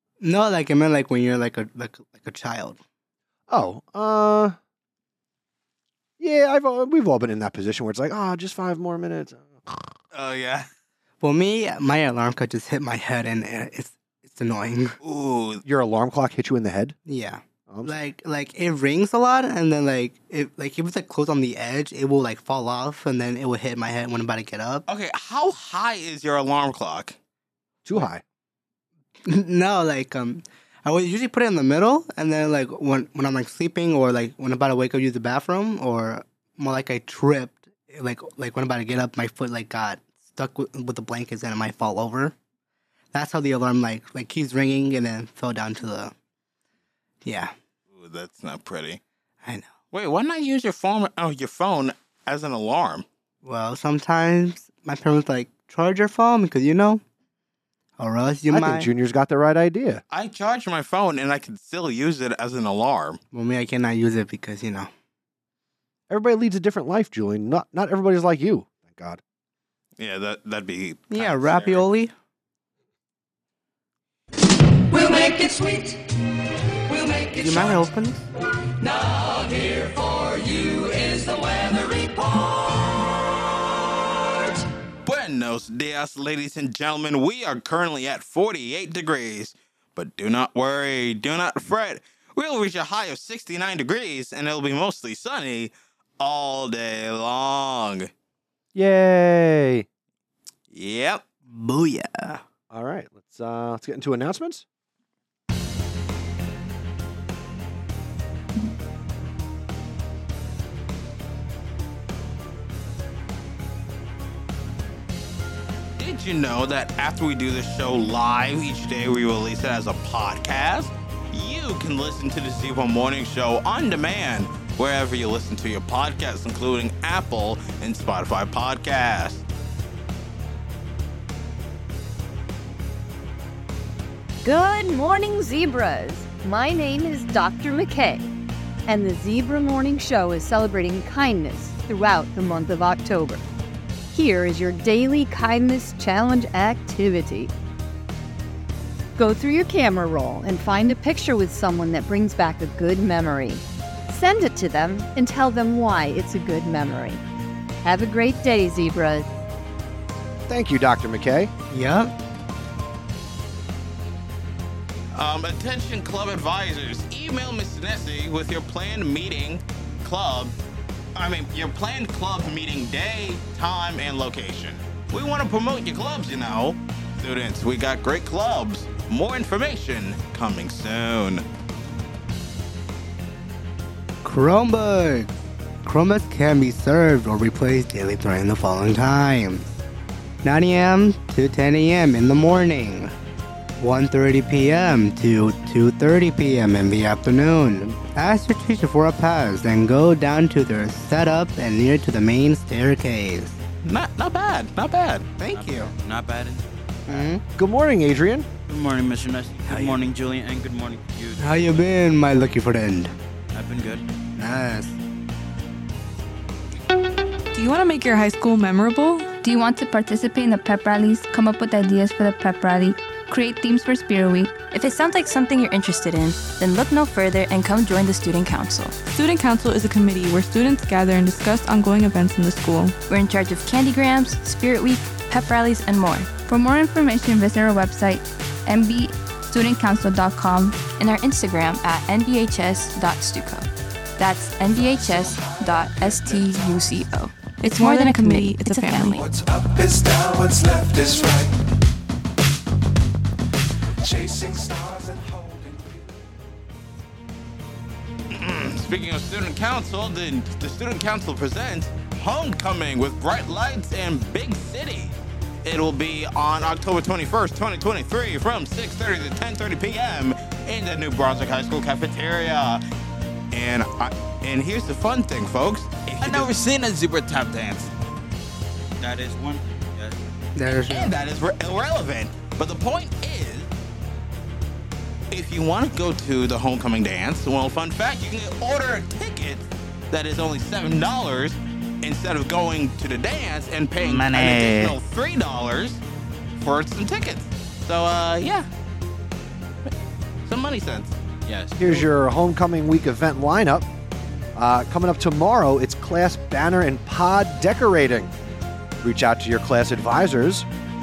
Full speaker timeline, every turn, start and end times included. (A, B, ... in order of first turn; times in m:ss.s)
0:00.2-0:02.8 A
0:03.5-0:04.6 B
0:06.2-0:09.9 B
0:10.1-0:10.7 C
0:11.2-0:15.0 A
0:15.0-0:15.6 C
0:15.6-0:17.0 B
0:17.0-0:24.8 A
0:17.7-0:18.0 B
0:24.9-0:27.2 C
0:27.8-0:28.2 B
0:29.3-0:42.3 A
0:43.1-0:46.1 A
0:47.2-0:47.5 A
0:47.9-0:49.0 C
0:49.9-0:53.0 C
0:53.4-0:57.0 A
0:58.0-0:58.9 A
0:58.5-1:00.0 B
1:00.1-1:03.2 C
1:03.3-1:04.9 A
1:06.1-1:09.2 B
1:10.0-1:11.8 C
1:11.1-1:12.1 A
1:17.3-1:18.2 A
1:25.0-1:38.1 C
1:38.7-1:39.9 B
1:40.7-1:41.2 C
1:41.5-1:42.4 A
1:42.7-1:44.6 B
1:56.0-2:09.4 C
2:14.4-2:18.3 D
2:18.8-2:23.4 D
2:24.1-2:27.5 D
2:29.2-2:37.2 D
2:37.8-2:39.4 D
2:40.5-2:41.5 B
2:41.7-2:42.1 A
2:45.1-2:50.6 C
2:51.1-3:01.4 C
3:04.2-3:09.7 A
3:10.4-3:13.1 A
3:13.8-3:23.6 A
3:23.8-3:25.3 C
3:25.4-3:25.9 A
3:25.5-3:26.6 E
3:27.1-3:27.4 A
3:27.6-3:28.5 B
3:28.7-3:31.9 E
3:29.7-3:30.0 A
3:31.4-3:33.1 A
3:33.5-3:34.0 E
3:34.4-3:35.0 A
3:37.5-3:39.3 F
3:39.4-3:44.6 G
3:44.7-3:49.0 H
3:49.1-3:52.9 F
3:53.1-3:56.3 H
3:56.4-4:00.8 G
4:00.9-4:03.7 H
4:04.2-4:09.4 H
4:07.6-4:09.2 F
4:09.6-4:10.9 I
4:14.2-4:15.6 I
4:18.3-4:32.8 C
4:33.5-4:37.9 C
4:36.2-4:36.5 E
4:39.0-4:40.2 E
4:40.5-4:41.1 A
4:40.8-4:43.7 C
4:45.3-4:56.0 C
4:54.0-4:54.9 E
4:56.6-4:58.7 C
5:00.4-5:01.2 C
5:01.4-5:02.0 E
5:01.8-5:03.9 B
5:04.5-5:08.3 B
5:09.0-5:10.7 B